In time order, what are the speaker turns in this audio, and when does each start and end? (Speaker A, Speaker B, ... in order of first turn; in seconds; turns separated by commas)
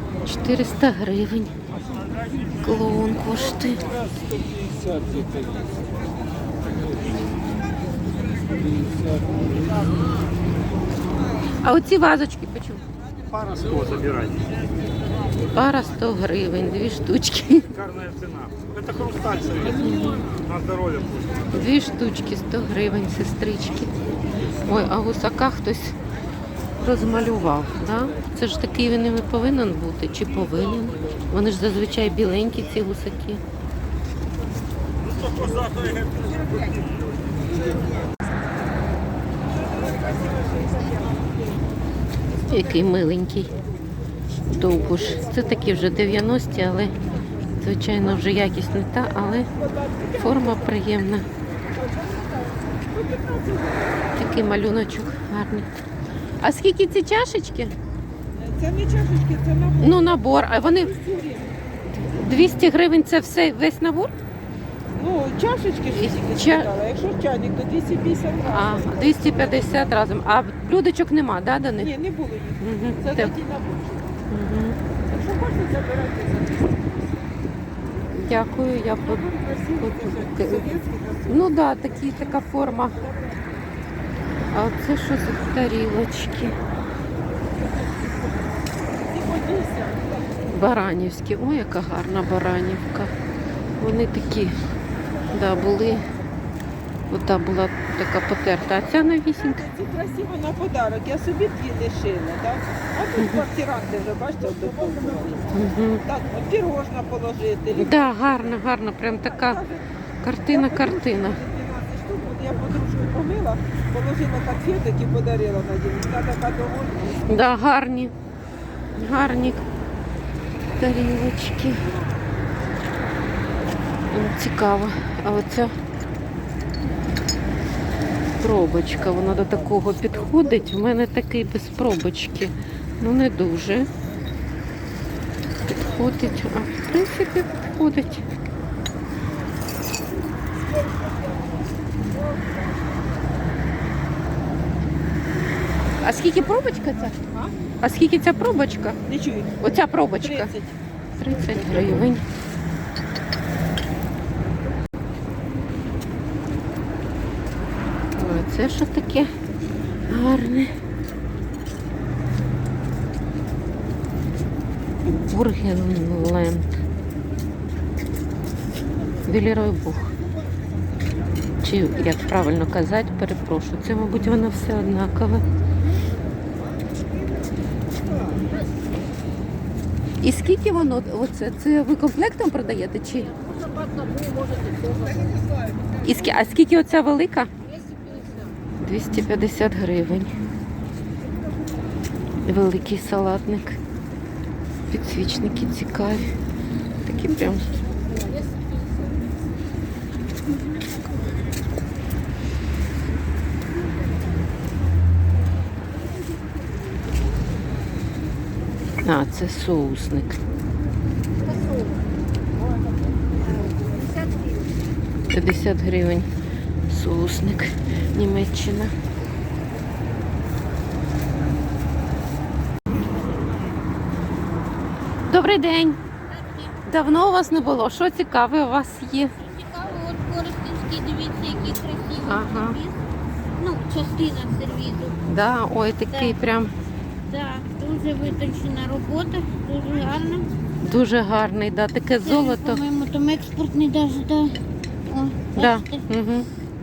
Speaker A: 0.2-1.5, Speaker A: 2.6-3.9, Speaker B: 3.7-5.6, Speaker B: 8.8-9.2, Speaker A: 11.6-12.8, Speaker C: 13.3-14.5, Speaker A: 15.5-17.7, Speaker C: 17.7-21.5, Speaker A: 19.8-20.2, Speaker A: 21.5-23.9, Speaker A: 24.7-26.0, Speaker A: 26.8-33.4, Speaker C: 35.0-36.2, Speaker A: 42.5-43.5, Speaker A: 44.5-47.0, Speaker A: 47.6-49.5, Speaker D: 49.6-50.7, Speaker A: 50.1-51.3, Speaker D: 51.9-52.2, Speaker D: 52.9-53.9, Speaker A: 54.2-55.7, Speaker A: 56.4-57.8, Speaker D: 58.4-59.9, Speaker A: 59.8-61.0, Speaker D: 60.9-61.4, Speaker A: 62.1-64.2, Speaker D: 65.0-69.6, Speaker A: 65.9-66.7, Speaker A: 68.4-72.0, Speaker D: 71.8-73.9, Speaker A: 72.6-73.3, Speaker A: 74.3-74.8, Speaker D: 75.2-76.8, Speaker A: 78.1-80.7, Speaker D: 79.1-81.2, Speaker A: 81.3-83.0, Speaker A: 84.5-86.6, Speaker D: 89.1-90.3, Speaker A: 90.5-93.1, Speaker A: 93.8-94.6, Speaker A: 95.3-96.1, Speaker A: 97.1-99.7, Speaker D: 99.4-105.0, Speaker A: 103.2-103.5, Speaker A: 105.5-106.0, Speaker D: 106.1-107.8, Speaker A: 107.7-109.7, Speaker A: 110.2-111.4, Speaker D: 110.5-117.1, Speaker A: 117.3-118.1, Speaker A: 119.0-119.7, Speaker A: 120.8-121.9, Speaker A: 124.1-125.8, Speaker A: 128.4-133.9, Speaker A: 135.8-138.2, Speaker A: 146.0-147.2, Speaker A: 147.8-149.0, Speaker D: 149.1-150.7, Speaker A: 149.6-150.5, Speaker A: 151.2-152.2, Speaker A: 158.1-159.3, Speaker A: 160.1-160.8, Speaker A: 165.3-166.8, Speaker A: 169.3-170.1, Speaker A: 171.6-175.4, Speaker A: 180.2-183.3, Speaker A: 186.0-187.5, Speaker A: 188.8-190.3, Speaker A: 192.4-193.8, Speaker A: 194.9-196.3, Speaker A: 197.0-197.8, Speaker A: 209.0-210.4, Speaker A: 215.3-216.3, Speaker A: 216.9-218.9, Speaker A: 225.3-226.0, Speaker E: 226.3-226.8, Speaker A: 226.9-229.3, Speaker E: 229.4-233.0, Speaker A: 232.2-232.8, Speaker E: 233.6-235.2, Speaker A: 235.3-236.7, Speaker E: 236.1-236.4, Speaker E: 237.3-240.5, Speaker A: 240.8-242.8, Speaker E: 242.2-246.1, Speaker A: 245.6-246.5